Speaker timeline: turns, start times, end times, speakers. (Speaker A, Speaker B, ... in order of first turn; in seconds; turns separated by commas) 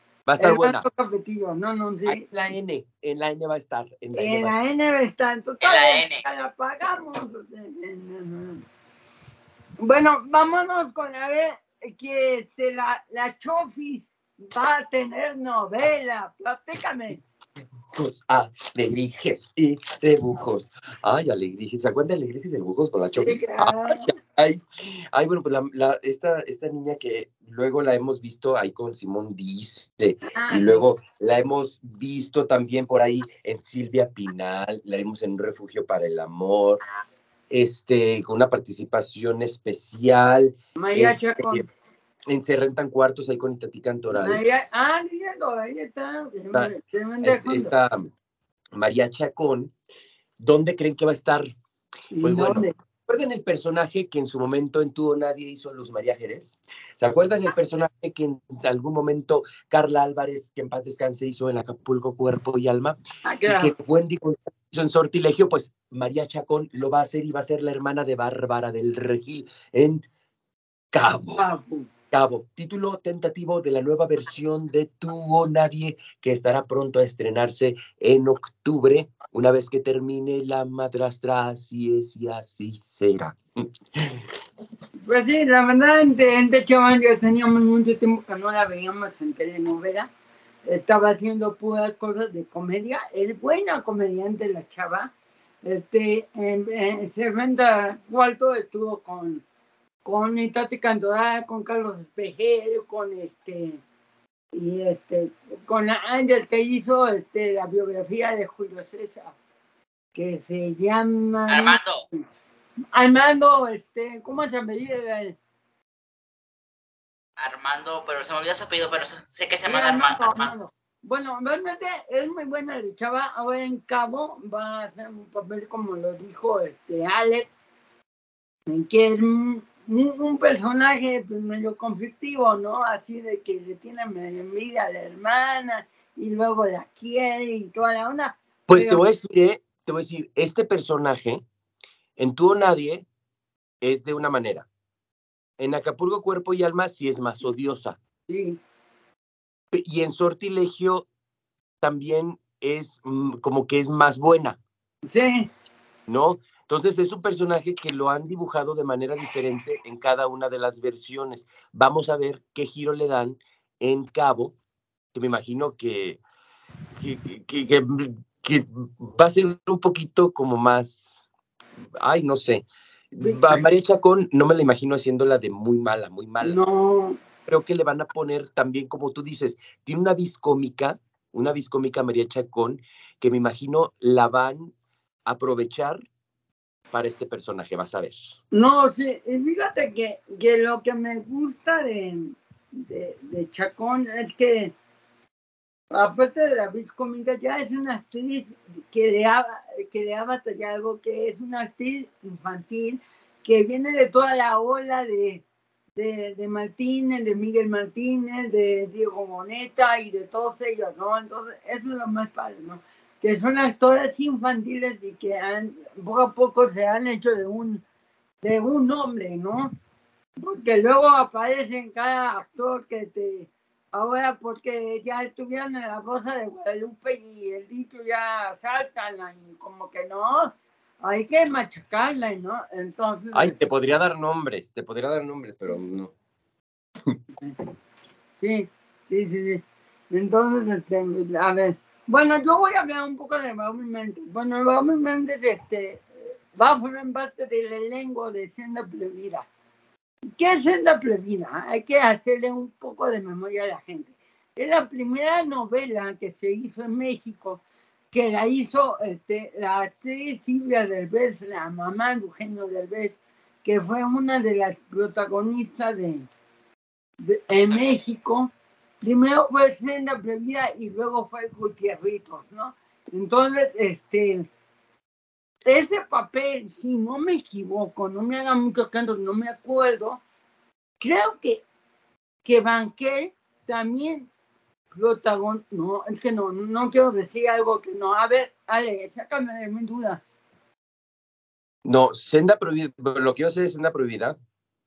Speaker A: 0.3-0.9, Speaker B: 0.4-2.2, Speaker A: 2.0-4.6, Speaker B: 4.1-8.6, Speaker C: 5.6-6.2, Speaker B: 9.8-17.2, Speaker A: 17.9-24.6, Speaker B: 23.1-24.1, Speaker A: 25.1-36.8, Speaker B: 30.3-30.9, Speaker A: 37.5-41.6, Speaker B: 40.8-41.7, Speaker A: 42.3-44.4, Speaker B: 44.1-47.7, Speaker A: 47.2-48.1, Speaker A: 48.7-49.7, Speaker A: 50.4-51.4, Speaker B: 52.1-52.7, Speaker A: 52.2-70.0, Speaker B: 63.2-63.7, Speaker A: 70.9-71.4, Speaker B: 71.3-71.9, Speaker A: 72.1-83.4, Speaker B: 85.0-90.1, Speaker B: 90.7-95.1, Speaker B: 95.6-99.4, Speaker B: 100.0-103.8, Speaker B: 104.5-109.3, Speaker B: 110.2-111.8, Speaker C: 111.5-112.0, Speaker B: 112.9-115.4, Speaker C: 117.4-120.5, Speaker B: 119.7-127.5, Speaker B: 128.7-139.0, Speaker A: 138.7-141.4, Speaker A: 142.2-143.1, Speaker A: 143.8-144.7, Speaker A: 145.6-148.0, Speaker B: 148.3-148.6, Speaker A: 149.7-151.1, Speaker A: 151.8-154.6, Speaker B: 155.1-155.5, Speaker A: 156.1-164.5, Speaker A: 165.1-166.2, Speaker A: 167.0-171.1, Speaker A: 172.0-176.6, Speaker B: 173.2-173.6, Speaker B: 176.4-177.2, Speaker A: 177.5-184.7, Speaker A: 185.2-186.0, Speaker A: 186.9-188.4, Speaker B: 188.5-194.7, Speaker B: 195.9-205.4, Speaker B: 205.9-217.8, Speaker B: 218.4-219.7, Speaker B: 220.4-233.6, Speaker A: 233.3-236.1, Speaker B: 238.4-249.5, Speaker B: 250.4-266.3, Speaker B: 267.2-268.5, Speaker C: 267.6-267.9, Speaker B: 269.0-274.5, Speaker B: 275.6-280.2, Speaker B: 281.0-281.6, Speaker B: 282.4-284.3, Speaker B: 284.9-290.2, Speaker A: 291.8-294.4